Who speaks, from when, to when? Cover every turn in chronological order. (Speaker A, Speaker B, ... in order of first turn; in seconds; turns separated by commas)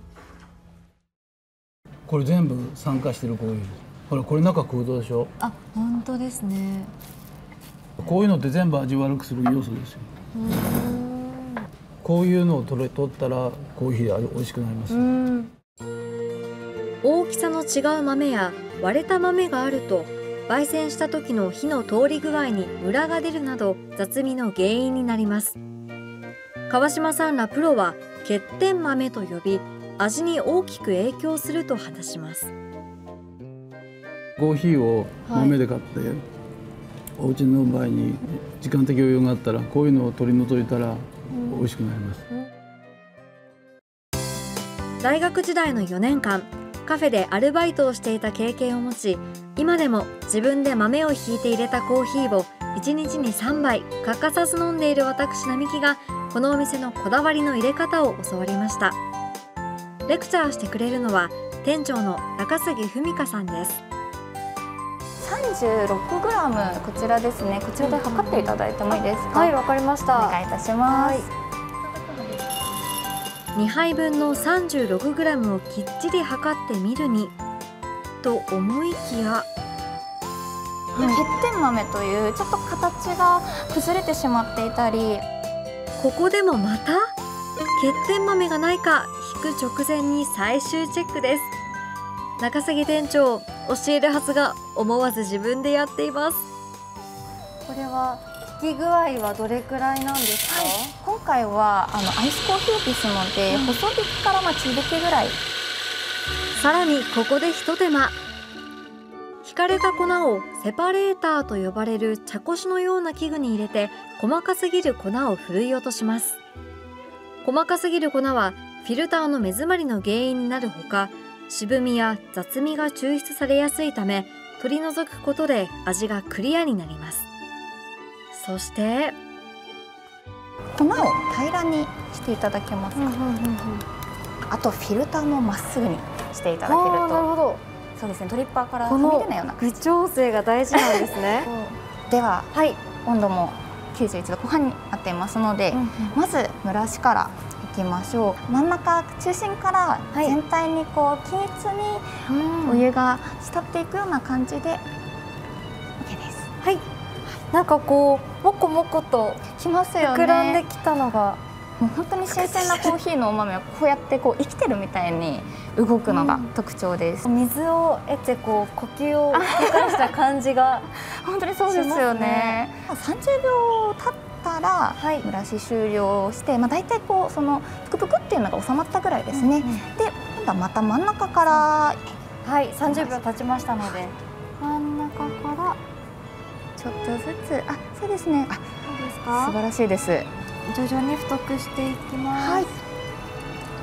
Speaker A: 2.1-5.3, Speaker B: 5.4-6.9, Speaker A: 8.0-10.1, Speaker B: 10.3-11.7, Speaker A: 12.0-15.1, Speaker B: 14.9-15.5, Speaker B: 17.0-25.6, Speaker B: 26.7-32.5, Speaker A: 34.4-36.2, Speaker B: 35.3-35.6, Speaker A: 37.2-42.2, Speaker B: 41.3-41.6, Speaker B: 45.0-59.0, Speaker B: 60.0-63.8, Speaker C: 65.2-69.5, Speaker B: 67.8-71.3, Speaker C: 70.1-71.3, Speaker B: 73.5-77.3, Speaker B: 78.2-79.5, Speaker C: 81.0-85.2, Speaker B: 81.0-81.2, Speaker B: 86.0-87.1, Speaker B: 87.8-91.5, Speaker B: 92.4-96.5, Speaker B: 97.6-100.9, Speaker C: 100.5-105.4, Speaker B: 103.5-103.8, Speaker B: 106.5-108.2, Speaker B: 109.4-116.4, Speaker B: 117.4-127.3, Speaker B: 128.3-129.2, Speaker C: 130.7-133.2, Speaker B: 132.9-133.8, Speaker C: 134.5-137.3, Speaker B: 136.7-137.6, Speaker C: 137.9-139.9, Speaker B: 138.8-141.5, Speaker C: 140.7-142.5, Speaker B: 142.5-142.8, Speaker C: 143.0-154.8, Speaker B: 145.7-146.2, Speaker B: 152.3-152.9, Speaker C: 156.0-156.5, Speaker B: 157.5-159.4, Speaker C: 159.5-160.6, Speaker B: 160.0-161.4, Speaker C: 161.8-167.2, Speaker B: 162.4-162.9, Speaker B: 166.1-166.5, Speaker B: 167.2-170.9, Speaker C: 169.3-170.1, Speaker C: 171.1-182.1, Speaker B: 171.7-172.6, Speaker B: 174.9-175.3, Speaker B: 179.3-179.8, Speaker B: 182.4-185.8, Speaker C: 182.8-183.2, Speaker C: 186.8-188.7, Speaker B: 188.8-189.6, Speaker C: 189.3-190.3, Speaker B: 190.7-192.7, Speaker C: 192.3-192.7